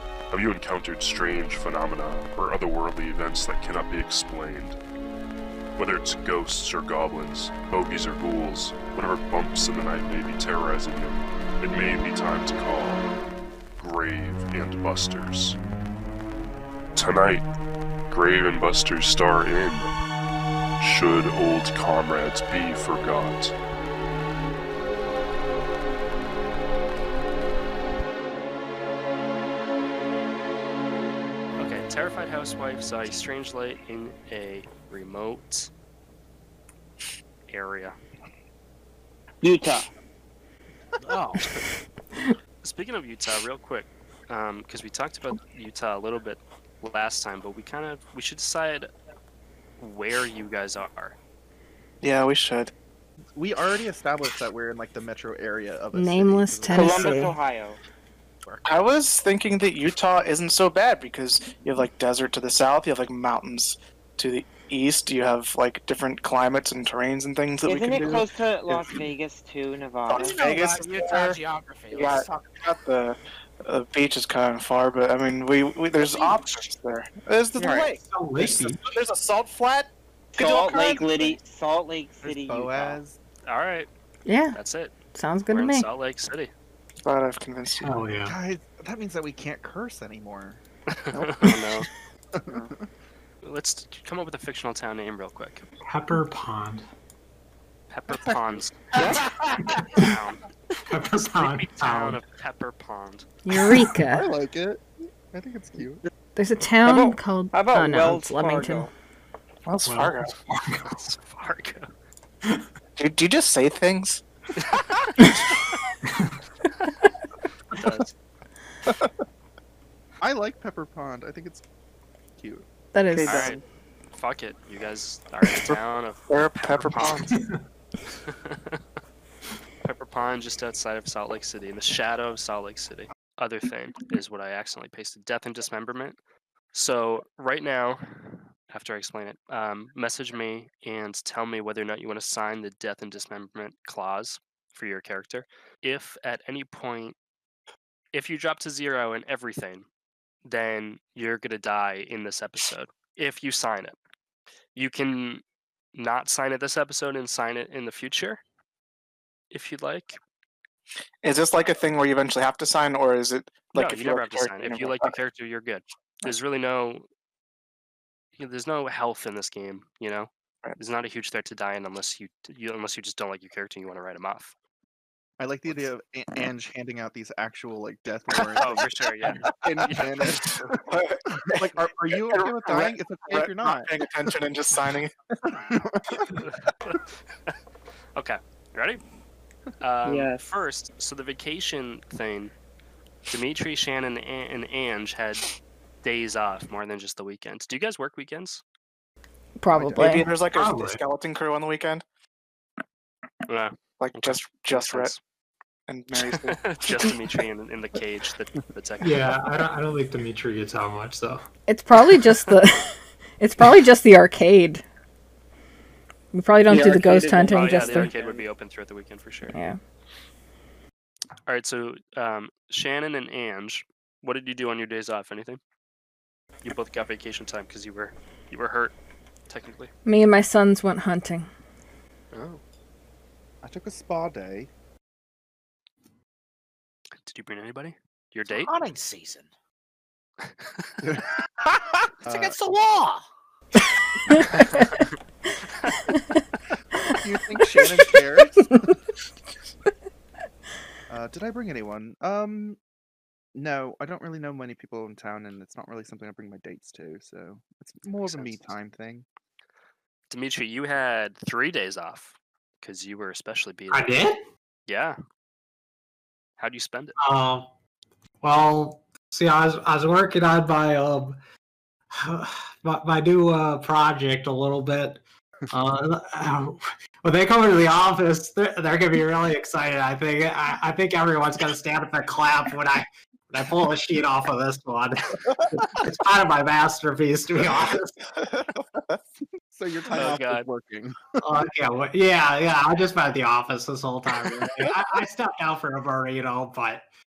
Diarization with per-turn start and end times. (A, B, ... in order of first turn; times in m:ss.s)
0:00.3-0:04.8 A
0:05.8-0:13.1 A
0:13.8-0:15.6 A
0:17.0-0:17.5 A
0:18.1-0:19.9 A
0:20.8-0:23.5 A
0:31.6-0:35.7 B
0:37.5-0:38.0 B
0:39.4-0:39.9 C
0:41.0-0:41.5 D
0:42.6-0:48.9 B
0:49.8-0:51.2 B
0:52.0-0:52.7 E
0:53.4-0:57.2 F
0:55.9-0:57.4 G
0:56.7-0:57.8 C
0:58.6-1:09.0 E
1:07.6-1:10.5 C
1:10.1-1:11.4 E
1:10.1-1:12.3 D
1:11.9-1:21.4 E
1:11.9-1:12.2 C
1:16.0-1:16.5 D
1:17.6-1:17.9 C
1:17.9-1:18.8 H
1:20.3-1:23.0 C
1:22.2-1:23.2 F
1:23.4-1:23.9 B
1:24.3-1:24.6 G
1:24.5-1:25.0 B
1:25.1-1:25.9 G
1:25.5-1:26.5 B
1:27.0-1:27.9 E
1:27.8-1:28.4 H
1:28.2-1:32.8 F
1:30.9-1:31.9 B
1:33.4-1:35.7 B
1:35.8-1:36.9 H
1:37.9-1:39.0 B
1:39.0-1:39.2 F
1:39.6-1:40.1 H
1:39.9-1:40.4 B
1:40.9-1:42.2 H
1:41.3-1:43.3 B
1:43.5-1:44.3 G
1:44.1-1:46.1 F
1:46.4-1:48.9 G
1:46.9-1:48.9 C
1:49.7-1:50.3 E
1:49.8-1:51.0 H
1:50.8-1:51.9 B
1:53.0-1:54.2 E
1:54.6-1:55.8 B
1:56.1-1:56.3 H
1:57.7-1:58.2 B
2:00.2-2:01.6 F
2:02.4-2:02.7 F
2:02.9-2:03.4 G
2:03.1-2:03.6 C
2:03.2-2:03.6 B
2:04.2-2:07.3 B
2:05.6-2:07.3 E
2:07.3-2:07.6 H
2:08.2-2:08.8 B
2:09.8-2:16.2 B
2:16.7-2:27.2 B
2:28.1-2:29.9 B
2:30.4-2:34.0 B
2:34.8-2:35.4 B
2:35.9-2:38.4 B
2:39.5-2:40.2 B
2:41.2-2:45.2 E
2:43.8-2:47.1 B
2:48.4-2:54.5 B
2:55.4-3:04.1 F
2:58.6-3:00.7 B
3:00.9-3:01.3 E
3:02.3-3:05.1 E
3:05.4-3:06.4 F
3:06.4-3:07.6 B
3:08.2-3:09.0 B
3:09.8-3:12.5 B
3:10.0-3:10.4 C
3:13.3-3:15.5 B
3:16.0-3:18.6 B
3:19.6-3:20.3 G
3:19.8-3:20.1 F
3:20.0-3:22.0 E
3:20.4-3:21.0 H
3:23.5-3:25.2 B
3:24.0-3:25.1 E
3:25.9-3:27.0 E
3:26.1-3:29.4 B
3:29.0-3:31.4 H
3:31.7-3:34.8 G
3:36.3-3:38.1 G
3:36.7-3:38.4 C
3:36.8-3:39.6 B
3:39.5-3:39.8 G
3:41.5-3:45.6 B
3:46.6-3:49.0 B
3:49.5-3:49.9 B
3:50.1-3:51.5 G
3:52.3-3:52.6 B
3:53.6-3:54.7 F
3:57.2-3:58.7 B
3:58.5-3:59.5 D
4:00.6-4:00.9 B
4:02.2-4:03.3 D
4:02.3-4:02.6 F
4:04.5-4:05.0 B
4:05.7-4:06.0 B
4:07.2-4:09.0 F
4:11.1-4:12.8 F
4:13.6-4:19.3 F
4:18.2-4:18.7 B
4:20.3-4:24.1 B
4:23.9-4:24.5 H
4:24.9-4:25.2 B
4:26.6-4:27.2 B
4:27.2-4:27.7 H
4:28.4-4:31.4 H
4:32.1-4:48.2 H
4:49.7-4:51.4 F
4:50.2-4:50.7 B
4:51.4-4:57.0 H